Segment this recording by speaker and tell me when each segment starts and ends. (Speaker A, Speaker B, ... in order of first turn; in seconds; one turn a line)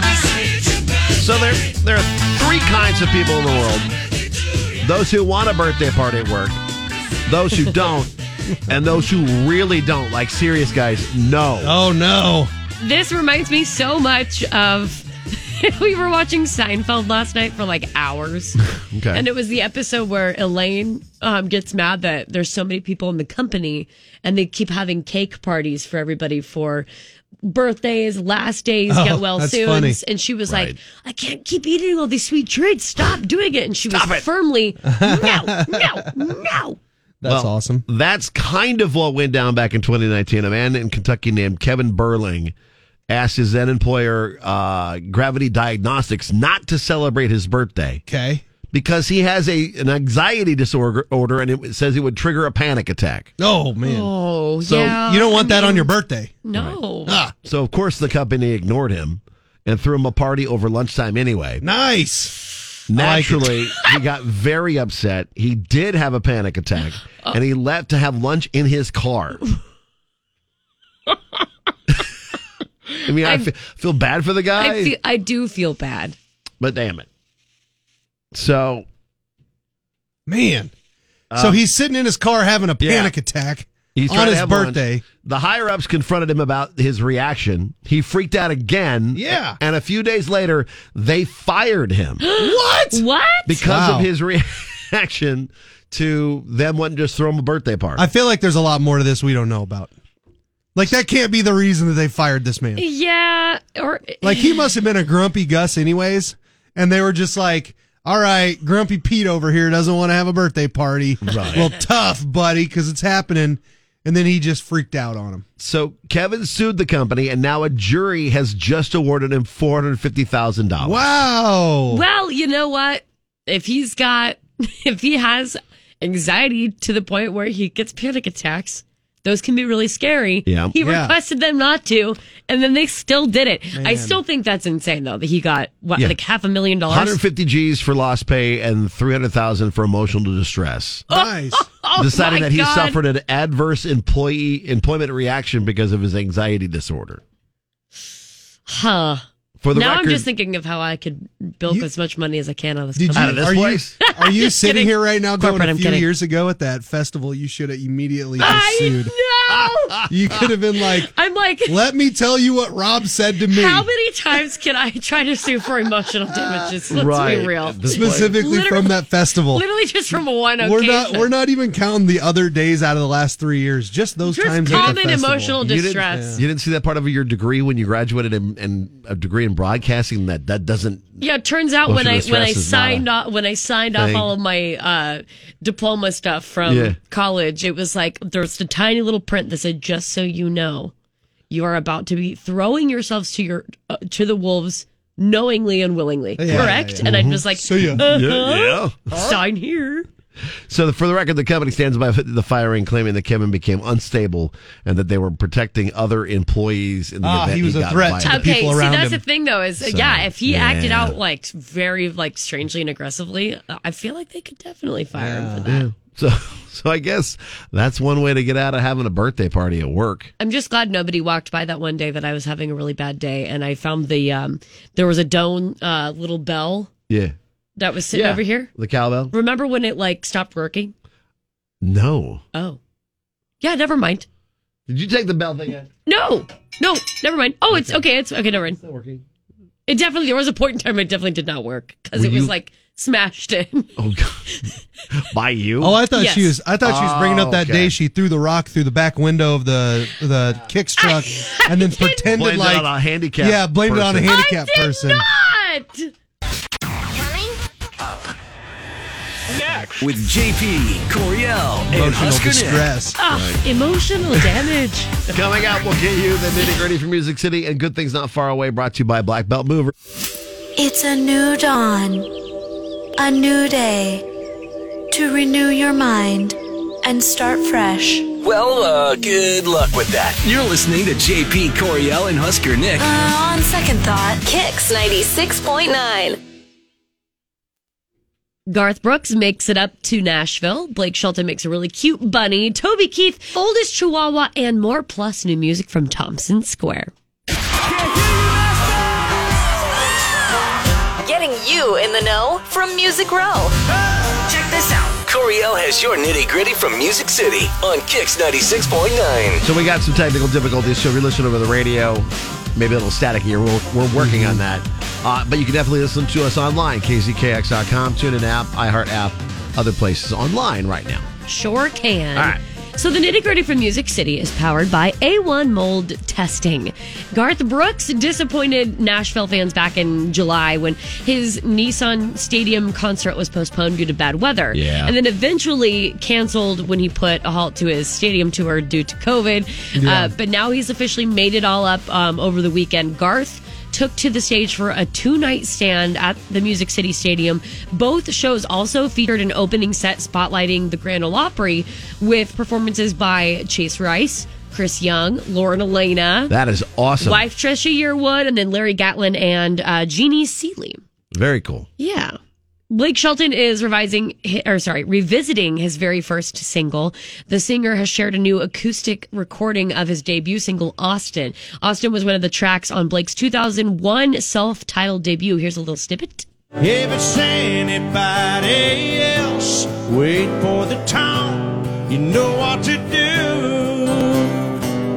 Speaker A: 1.2-3.9
Speaker A: 4.8-6.6
Speaker A: 7.3-8.1
Speaker A: 8.7-11.8
Speaker B: 11.6-12.5
Speaker C: 12.8-18.6
Speaker A: 18.8-19.2
Speaker C: 19.1-26.9
Speaker C: 27.4-36.8
Speaker B: 28.9-30.0
Speaker A: 30.5-30.8
Speaker A: 33.9-34.2
Speaker B: 34.9-36.1
Speaker B: 37.2-37.8
Speaker A: 37.2-42.5
Speaker A: 43.1-48.0
Speaker B: 48.1-48.5
Speaker A: 48.7-53.3
Speaker B: 53.4-54.1
Speaker C: 53.8-55.9
Speaker B: 54.6-56.4
Speaker C: 56.4-57.2
Speaker A: 56.5-56.8
Speaker B: 57.1-57.3
Speaker A: 57.4-61.6
Speaker B: 61.6-62.4
Speaker A: 62.9-69.5
Speaker B: 62.9-63.6
Speaker A: 73.1-74.9
Speaker C: 73.2-73.5
Speaker C: 74.6-76.2
Speaker A: 76.6-77.1
Speaker A: 78.3-78.9
Speaker B: 80.3-80.7
Speaker A: 81.3-81.6
Speaker B: 81.4-85.0
Speaker A: 82.8-83.1
Speaker A: 84.0-92.2
Speaker B: 89.1-89.6
Speaker C: 92.2-93.6
Speaker B: 92.4-93.0
Speaker A: 93.5-98.1
Speaker B: 93.6-94.1
Speaker B: 98.0-99.9
Speaker B: 100.8-102.8
Speaker C: 102.8-104.6
Speaker B: 104.2-115.5
Speaker A: 111.3-111.7
Speaker A: 115.6-121.1
Speaker B: 120.8-122.0
Speaker C: 121.9-137.2
Speaker A: 130.5-130.8
Speaker B: 130.8-131.2
Speaker B: 133.7-134.2
Speaker A: 136.9-141.1
Speaker B: 141.1-141.7
Speaker C: 141.1-143.0
Speaker A: 142.0-147.2
Speaker C: 148.7-156.1
Speaker A: 149.6-150.3
Speaker B: 152.9-159.2
Speaker A: 153.1-153.9
Speaker C: 158.4-160.0
Speaker B: 160.1-161.1
Speaker C: 161.1-161.8
Speaker B: 161.7-163.9
Speaker C: 163.5-171.3
Speaker B: 166.3-169.6
Speaker A: 166.9-168.4
Speaker B: 170.6-176.4
Speaker C: 174.2-176.4
Speaker A: 174.7-175.0
Speaker A: 175.6-181.1
Speaker C: 181.2-190.9
Speaker A: 181.9-183.1
Speaker A: 183.9-184.3
Speaker A: 186.7-187.0
Speaker C: 191.5-200.1
Speaker B: 196.4-198.1
Speaker A: 196.5-197.4
Speaker A: 197.9-199.2
Speaker A: 200.7-208.6
Speaker B: 207.2-209.2
Speaker C: 208.2-215.9
Speaker A: 209.8-211.2
Speaker B: 215.2-215.7
Speaker A: 215.7-220.3
Speaker C: 220.4-226.9
Speaker A: 227.1-227.3
Speaker C: 227.8-228.7
Speaker A: 228.1-229.3
Speaker C: 229.3-230.9
Speaker A: 231.8-232.4
Speaker C: 232.5-232.8
Speaker C: 233.6-234.3
Speaker A: 234.9-235.9
Speaker C: 236.1-238.8
Speaker A: 237.7-238.0
Speaker A: 238.8-239.2
Speaker C: 239.9-243.9
Speaker A: 242.2-242.5
Speaker A: 244.0-244.4
Speaker A: 245.2-246.0
Speaker B: 245.8-255.3
Speaker C: 246.1-246.6
Speaker A: 246.8-247.9
Speaker C: 251.0-252.2
Speaker A: 252.3-254.3
Speaker C: 254.3-256.1
Speaker D: 260.0-262.9
Speaker B: 261.9-263.2
Speaker C: 263.2-265.3
Speaker A: 263.3-263.6
Speaker A: 265.3-269.9
Speaker E: 270.8-272.3
Speaker E: 273.2-274.3
Speaker E: 275.1-278.3
Speaker D: 278.4-283.1
Speaker E: 283.0-284.4
Speaker F: 284.4-286.4
Speaker C: 288.7-297.1
Speaker F: 301.2-303.7
Speaker F: 304.5-305.2
Speaker D: 305.2-309.6
Speaker A: 309.6-321.3
Speaker B: 314.2-314.6
Speaker C: 321.5-356.5
Speaker A: 334.7-335.1
Speaker B: 339.9-340.3
Speaker A: 356.5-357.4
Speaker C: 357.2-361.0
Speaker A: 361.3-361.9
Speaker C: 362.0-362.4
Speaker C: 362.9-376.5
Speaker G: 376.8-384.6